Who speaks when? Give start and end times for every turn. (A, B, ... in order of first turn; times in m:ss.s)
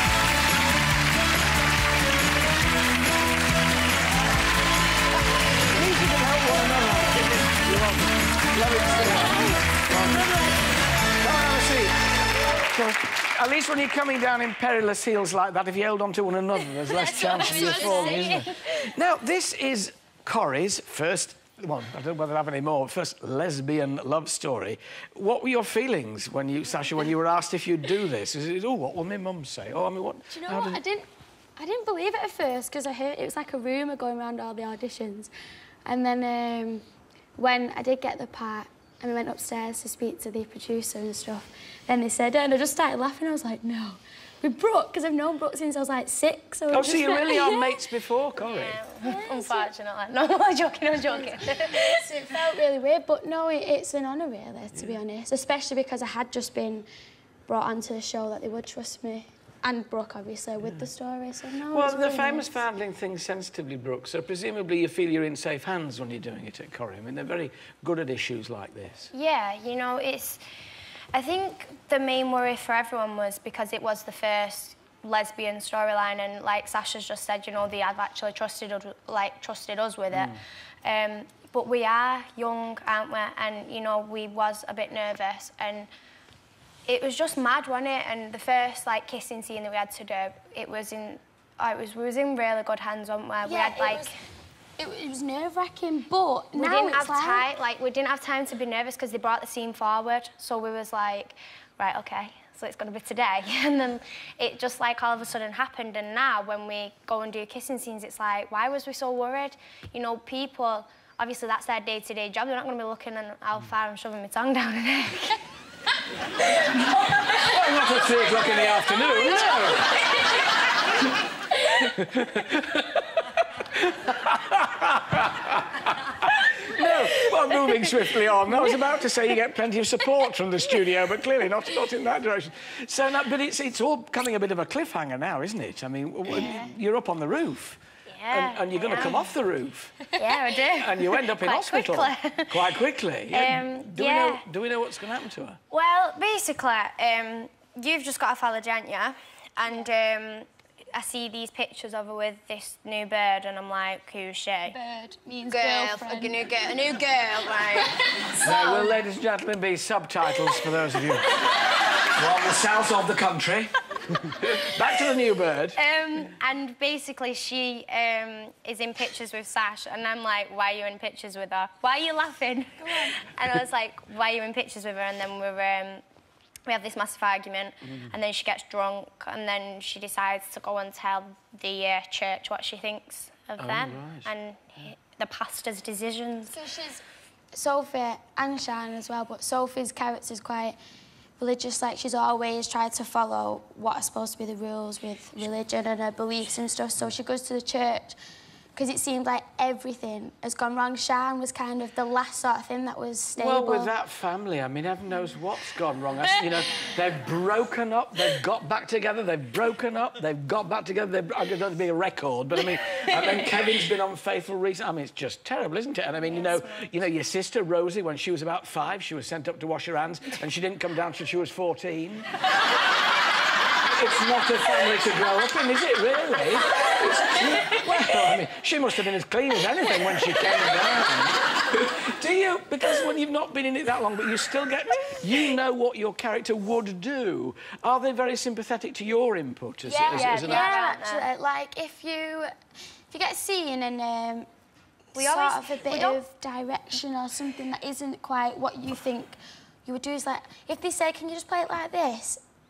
0:05.7-0:10.4 A
0:09.2-0:10.6 B
0:11.2-0:11.9 A
0:12.7-0:30.8 A
0:16.9-0:18.4 B
0:17.4-0:18.5 C
0:30.3-0:35.3 B
0:35.9-0:36.8 B
0:37.4-0:47.8 B
0:46.7-0:48.8 A
0:48.4-0:52.1 C
0:49.0-0:49.7 B
0:51.1-0:56.9 B
0:57.5-1:02.6 B
1:01.7-1:09.1 A
1:09.1-1:10.4 C
1:11.1-1:25.9 C
1:20.1-1:20.4 A
1:26.9-1:34.1 C
1:33.4-1:34.1 B
1:34.8-1:37.5 B
1:36.5-1:55.4 C
1:56.8-2:00.0 A
2:01.5-2:03.2 A
2:03.7-2:20.0 A
2:18.1-2:19.3 C
2:20.2-2:22.7 C
2:20.7-2:25.6 A
2:23.3-2:24.4 C
2:25.7-2:34.8 C
2:34.7-2:36.8 B
2:35.5-2:38.9 C
2:38.4-2:41.3 A
2:42.1-2:45.8 A
2:45.8-2:56.0 C
2:52.8-2:53.1 B
2:56.7-3:06.6 C
3:03.6-3:04.3 A
3:06.5-3:10.8 B
3:11.4-3:18.2 B
3:18.8-3:23.9 B
3:23.4-3:42.3 A
3:36.2-3:36.9 C
3:43.9-4:00.8 A
3:59.9-4:02.5 B
4:00.1-4:01.3 C
4:03.1-4:04.5 B
4:05.1-4:12.4 B
4:05.2-4:06.2 C